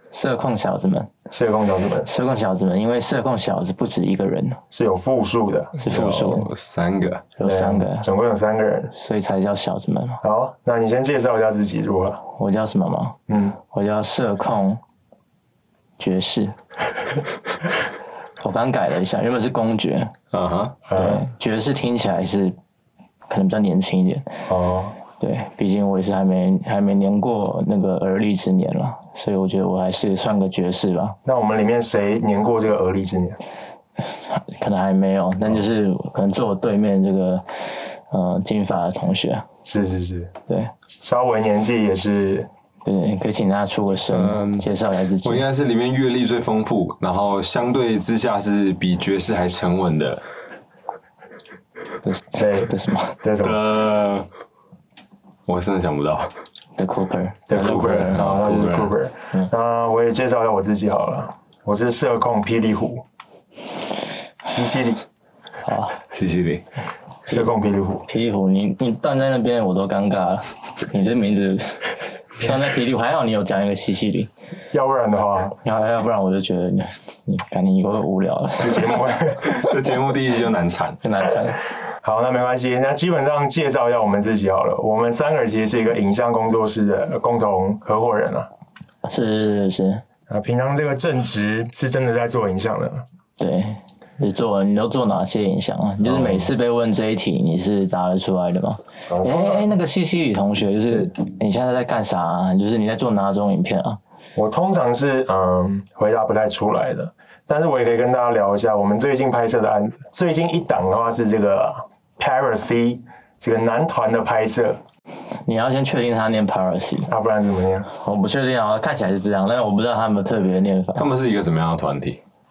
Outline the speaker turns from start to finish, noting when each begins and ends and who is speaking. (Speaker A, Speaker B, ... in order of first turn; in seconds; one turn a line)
Speaker A: 0.1-1.1
Speaker B: 1.3-2.1
Speaker A: 2.0-4.6
Speaker B: 4.7-6.0
Speaker A: 5.8-6.5
Speaker C: 5.9-7.3
Speaker A: 7.4-8.1
Speaker B: 7.5-8.9
Speaker A: 8.9-10.2
Speaker B: 10.2-12.2
Speaker A: 12.3-14.8
Speaker B: 13.3-13.6
Speaker A: 16.0-16.6
Speaker A: 18.4-20.1
Speaker C: 20.3-20.8
Speaker B: 20.9-21.2
Speaker A: 20.9-22.6
Speaker A: 23.3-24.3
Speaker B: 24.5-24.9
Speaker A: 25.1-31.2
Speaker B: 31.2-33.4
Speaker A: 34.0-39.5
Speaker B: 39.6-40.3
Speaker B: 41.0-42.5
Speaker A: 42.9-45.5
Speaker C: 44.1-44.7
Speaker C: 45.2-50.2
Speaker A: 52.0-53.2
Speaker B: 52.4-53.7
Speaker C: 53.4-54.3
Speaker C: 55.5-56.3
Speaker A: 56.8-58.2
Speaker B: 57.5-63.0
Speaker C: 57.5-58.9
Speaker B: 64.5-65.0
Speaker A: 65.6-66.0
Speaker C: 66.1-66.6
Speaker B: 67.3-68.0
Speaker A: 68.1-74.3
Speaker B: 74.7-75.5
Speaker A: 75.6-79.5
Speaker B: 78.6-79.4
Speaker C: 79.4-81.0
Speaker A: 81.0-81.6
Speaker B: 82.0-88.5
Speaker A: 89.0-90.0
Speaker B: 90.3-93.0
Speaker A: 93.4-104.0
Speaker B: 96.0-96.5
Speaker B: 99.1-99.7
Speaker B: 104.4-114.8
Speaker A: 115.5-117.1
Speaker B: 117.1-117.9
Speaker A: 117.9-121.1
Speaker C: 121.0-122.2